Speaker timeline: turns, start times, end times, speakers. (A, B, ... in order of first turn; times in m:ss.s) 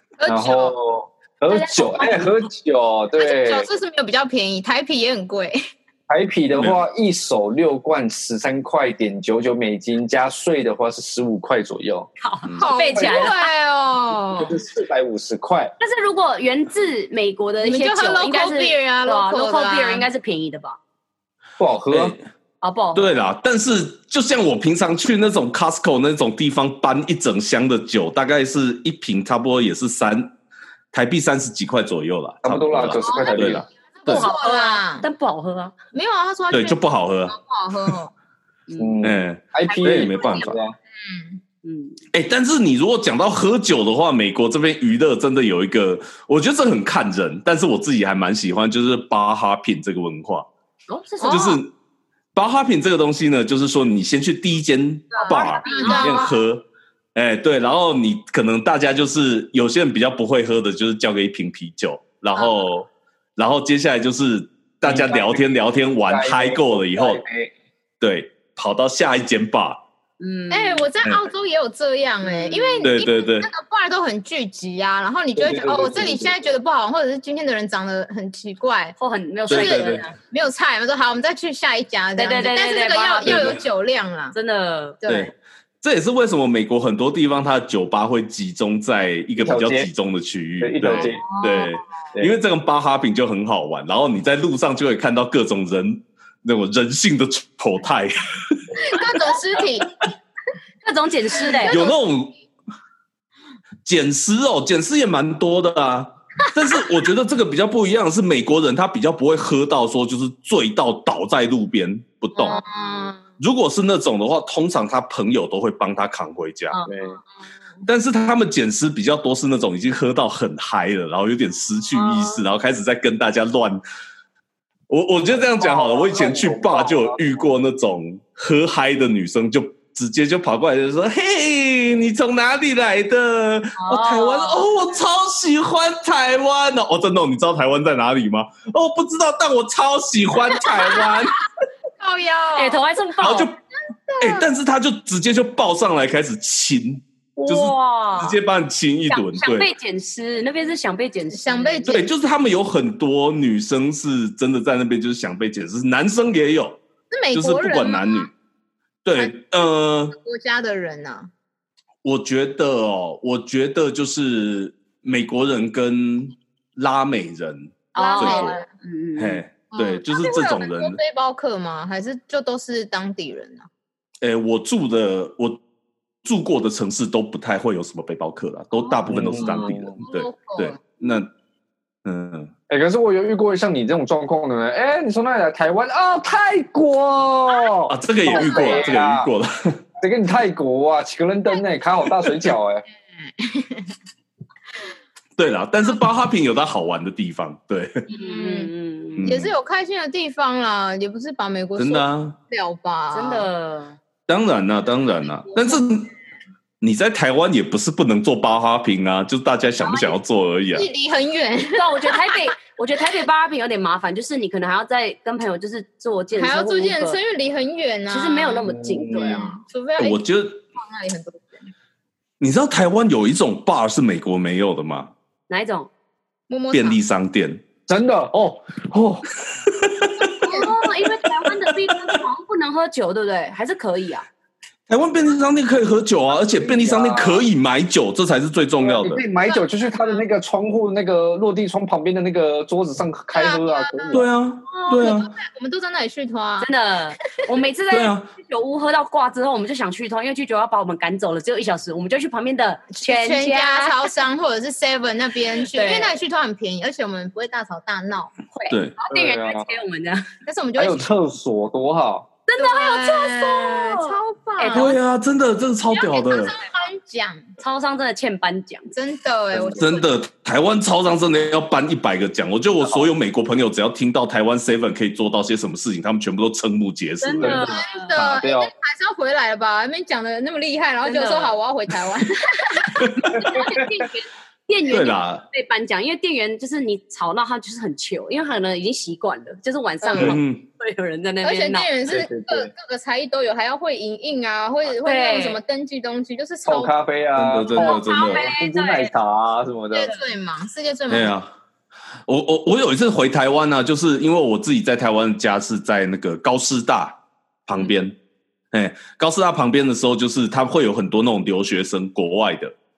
0:00.2-0:00.7 A
0:00.3-0:03.7 B
0:01.5-0:02.3 C
0:03.2-0:05.6 A
0:06.1-0:12.1 B
0:12.2-0:13.5 C
0:12.6-0:14.6 A
0:12.9-0:13.2 B
0:14.4-0:15.7 B
0:15.8-0:20.8 C
0:17.6-0:20.1 A
0:21.6-0:22.1 B
0:21.9-0:22.2 D
0:22.6-0:23.2 C
0:23.0-0:30.3 D
0:30.9-0:34.3 D
0:32.4-0:33.6 B
0:33.0-0:35.0 A
0:34.0-0:35.7 C
0:35.9-0:38.1 A
0:36.5-0:37.9 D
0:38.7-0:39.0 C
0:38.8-0:40.8 B
0:39.0-0:40.6 D
0:39.7-0:40.5 C
0:41.0-0:41.4 A
0:41.6-0:42.0 C
0:42.1-0:50.5 D
0:50.9-0:51.5 C
0:51.2-0:51.6 A
0:51.3-0:51.7 D
0:52.3-1:07.2 D
0:55.1-0:56.4 A
0:55.2-0:56.4 C
1:02.3-1:02.7 A
1:04.8-1:05.4 B
1:06.0-1:07.5 B
1:08.0-1:09.8 D
1:10.2-1:10.9 C
1:10.5-1:19.0 A
1:12.2-1:12.9 C
1:12.8-1:13.5 D
1:15.3-1:16.5 B
1:19.0-1:20.2 C
1:19.5-1:20.0 D
1:19.5-1:24.3 A
1:22.2-1:23.6 C
1:23.2-1:23.6 D
1:24.3-1:25.0 C
1:25.0-1:25.3 A
1:25.1-1:39.1 D
1:29.4-1:29.9 B
1:30.6-1:31.2 B
1:31.3-1:31.7 A
1:38.7-1:39.9 A
1:40.8-1:41.9 C
1:41.4-1:42.0 A
1:41.6-1:42.3 D
1:43.8-1:52.6 D
1:52.4-1:53.2 A
1:53.4-1:56.8 D
1:56.9-1:57.2 B
1:57.8-2:03.8 D
2:04.9-2:21.4 D
2:05.3-2:07.5 B
2:13.8-2:14.6 C
2:20.6-2:21.2 A
2:22.0-2:22.8 A
2:22.6-2:23.5 C
2:23.2-2:23.6 D
2:24.1-2:24.4 A
2:24.2-2:29.7 D
2:27.4-2:28.4 C
2:29.1-2:32.0 C
2:31.3-2:32.1 A
2:31.9-2:36.8 D
2:37.1-2:38.3 A
2:37.3-2:38.3 D
2:39.0-2:40.2 D
2:40.1-2:41.3 A
2:42.0-2:48.6 D
2:48.0-2:49.4 C
2:48.0-2:48.7 A
2:49.2-2:51.0 D
2:49.7-2:53.7 A
2:54.2-2:55.6 D
2:56.2-3:01.3 D
2:58.7-3:00.8 A
2:59.1-3:00.0 B
3:02.0-3:02.5 D
3:02.7-3:09.3 B
3:07.9-3:09.8 D
3:08.3-3:08.9 A
3:10.0-3:12.8 B
3:13.2-3:13.9 A
3:15.4-3:18.0 D
3:18.1-3:18.7 A
3:18.1-3:19.3 C
3:19.1-3:19.5 D
3:19.2-3:23.5 A
3:21.8-3:22.4 D
3:23.1-3:24.0 C
3:24.3-3:26.1 D
3:26.8-3:30.9 D
3:29.8-3:30.2 C
3:30.7-3:32.3 A
3:31.7-3:37.2 C
3:36.3-3:40.2 A
3:38.1-3:39.6 C
3:38.6-3:39.4 B
3:40.0-3:40.6 D
3:40.7-3:41.7 A
3:42.4-3:45.1 D
3:45.5-3:45.9 C
3:46.5-3:47.0 A
3:46.7-3:47.6 D
3:47.9-3:49.2 B
3:49.6-3:50.6 D
3:50.3-3:54.3 C
3:50.4-3:50.7 A
3:51.8-3:52.2 D
3:54.9-3:59.2 D
3:56.3-3:57.5 B
3:58.8-4:04.3 B
3:59.4-4:00.2 A
4:03.3-4:04.2 A
4:04.1-4:05.3 D
4:04.9-4:06.7 A
4:06.6-4:14.1 C
4:07.9-4:08.3 D
4:12.9-4:18.3 A
4:15.6-4:16.1 C
4:18.5-4:20.2 C
4:19.1-4:19.7 B
4:20.4-4:21.0 A
4:20.8-4:22.3 B
4:22.5-4:25.0 C
4:22.6-4:25.0 A
4:24.7-4:26.6 D
4:25.9-4:27.4 A
4:27.6-4:28.9 C
4:28.9-4:30.1 A
4:29.5-4:29.8 B
4:29.8-4:38.4 D
4:37.2-4:38.1 C
4:37.4-4:38.7 B
4:37.5-4:43.7 A
4:41.0-4:41.5 C
4:43.2-4:51.9 C
4:44.9-4:45.4 D
4:50.0-4:50.4 A
4:50.1-4:50.6 D
4:51.4-4:56.9 A
4:52.1-4:52.7 B
4:55.0-4:55.6 C
4:56.6-5:00.1 B
4:57.3-4:58.5 D
4:57.7-4:59.1 C
4:59.9-5:01.3 A
5:01.1-5:01.5 D
5:02.3-5:08.2 D
5:08.7-5:12.7 D